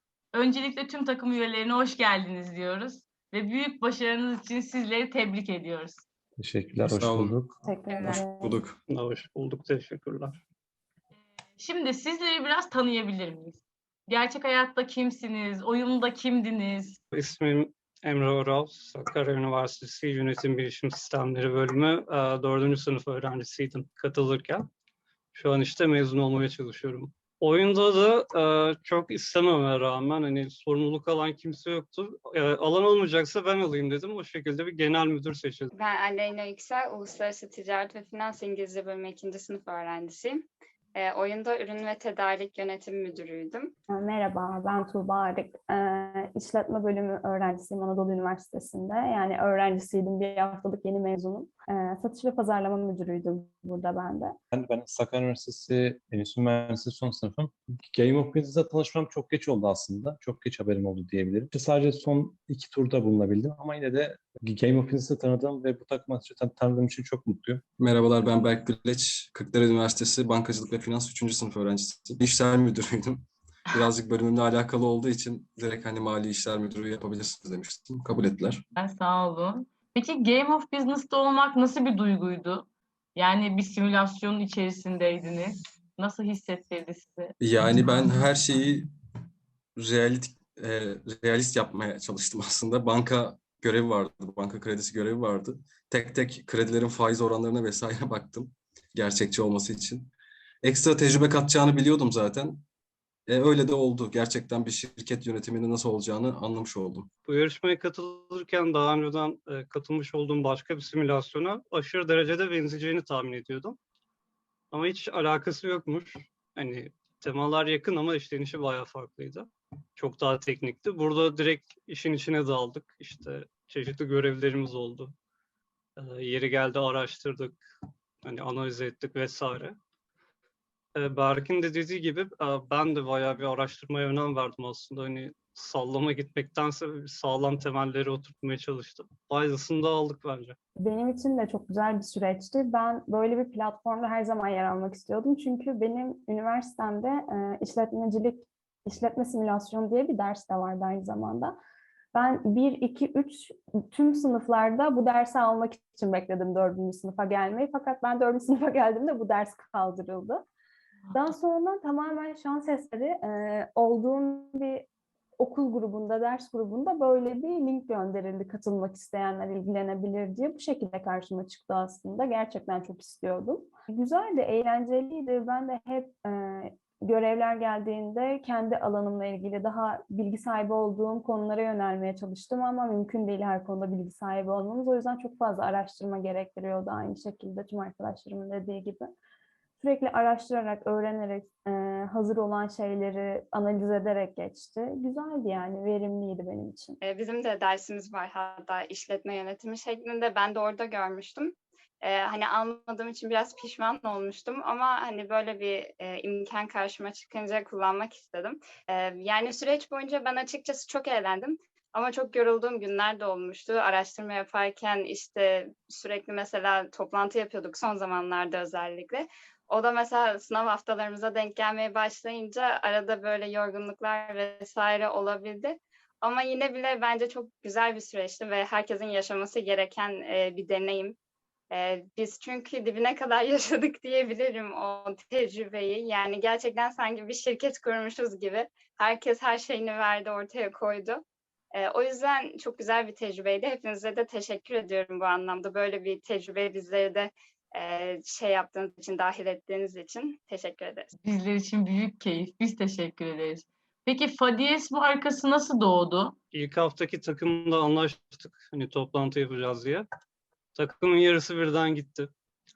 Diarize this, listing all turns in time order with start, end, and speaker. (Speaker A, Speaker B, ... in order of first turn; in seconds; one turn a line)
Speaker A: 0.3-6.0
Speaker B: 6.4-7.6
Speaker C: 6.8-7.3
Speaker D: 7.6-8.6
Speaker C: 8.0-8.8
Speaker E: 8.9-10.3
Speaker A: 11.6-17.0
Speaker E: 17.1-24.7
Speaker E: 25.3-35.7
Speaker F: 35.8-43.7
Speaker D: 43.9-54.3
Speaker B: 54.5-67.6
Speaker C: 67.8-78.6
Speaker A: 78.8-87.3
Speaker C: 87.4-88.9
Speaker C: 89.8-102.6
Speaker C: 103.3-107.1
Speaker E: 107.2-113.8
Speaker E: 114.7-125.1
Speaker E: 126.0-127.6
Speaker E: 128.2-129.8
Speaker E: 130.9-140.6
Speaker D: 140.8-151.5
Speaker D: 152.1-160.4
Speaker D: 161.1-164.8
Speaker D: 165.4-189.1
Speaker D: 189.8-197.0
Speaker F: 197.0-231.2
Speaker F: 231.7-241.2
Speaker F: 241.7-251.1
Speaker A: 251.2-256.4
Speaker E: 256.5-260.1
Speaker E: 260.7-262.3